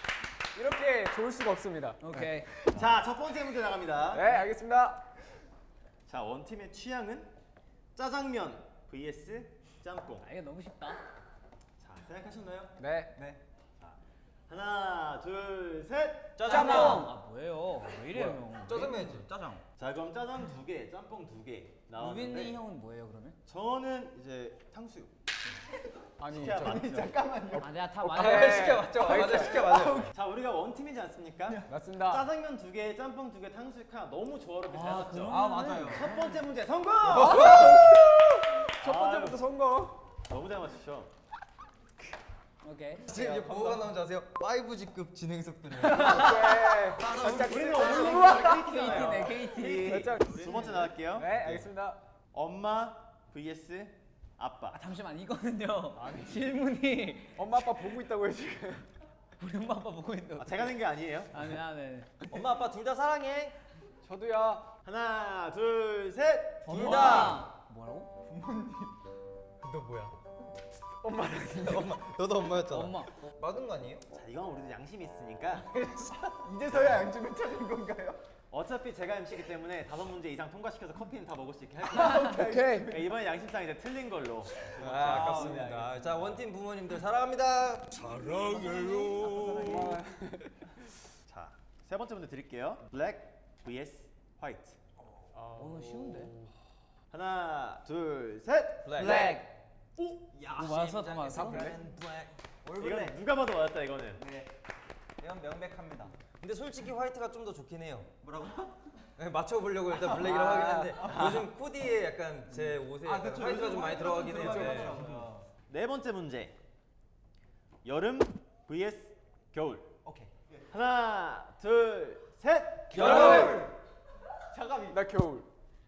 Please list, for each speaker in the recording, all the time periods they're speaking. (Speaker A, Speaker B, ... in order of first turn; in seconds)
Speaker A: 0.6-2.3, 4.1-5.0, 26.2-26.8, 28.1-29.6, 31.7-32.3, 38.5-40.0, 46.1-48.8, 49.6-52.0, 57.4-58.9, 64.0-64.7, 71.3-71.8, 82.2-83.0, 89.7-90.7, 114.4-115.0, 123.2-123.6, 124.9-125.5
Speaker B: 2.0-2.5, 10.2-11.0, 12.8-13.2, 16.4-19.1, 22.0-23.4, 27.6-29.3, 34.7-36.3, 42.6-43.1, 45.8-46.7, 47.9-50.0, 54.7-57.7, 59.4-62.2, 66.7-68.1, 72.7-73.1, 95.5-96.4, 99.0-99.6, 100.5-101.8
Speaker C: 2.7-4.4, 6.1-7.3, 8.0-10.3, 11.8-12.7, 14.5-17.1, 19.8-22.6, 23.5-25.1, 26.3-27.2, 29.5-38.0, 38.6-39.5, 40.3-41.1, 47.1-51.7, 52.3-54.8, 60.4-61.5, 62.3-63.5, 64.8-67.5, 74.1-75.8, 76.7-77.1, 78.5-85.8, 91.3-94.8, 97.1-99.4, 102.8-104.2, 111.0-111.5, 115.7-116.6, 117.8-119.9, 120.7-123.7
Speaker D: 13.2-13.4, 18.8-19.4, 26.6-27.8, 29.3-30.1, 35.3-36.2, 37.1-38.2, 43.1-43.8, 47.0-48.4, 68.2-69.0, 76.0-78.2, 81.9-82.9, 85.0-86.0, 89.2-89.9, 100.0-103.2, 104.2-104.5, 105.2-106.2, 108.2-108.8, 110.0-111.4, 113.0-115.5, 120.0-120.6, 123.0-123.7, 124.5-125.0
Speaker E: 16.4-17.1, 18.1-19.6, 28.1-30.1, 37.2-37.7, 43.0-46.5, 47.0-48.0, 62.3-63.2, 66.7-67.4, 69.6-70.2, 71.1-74.0, 84.8-90.0, 98.8-99.4, 106.4-108.1, 109.2-115.2, 122.9-123.8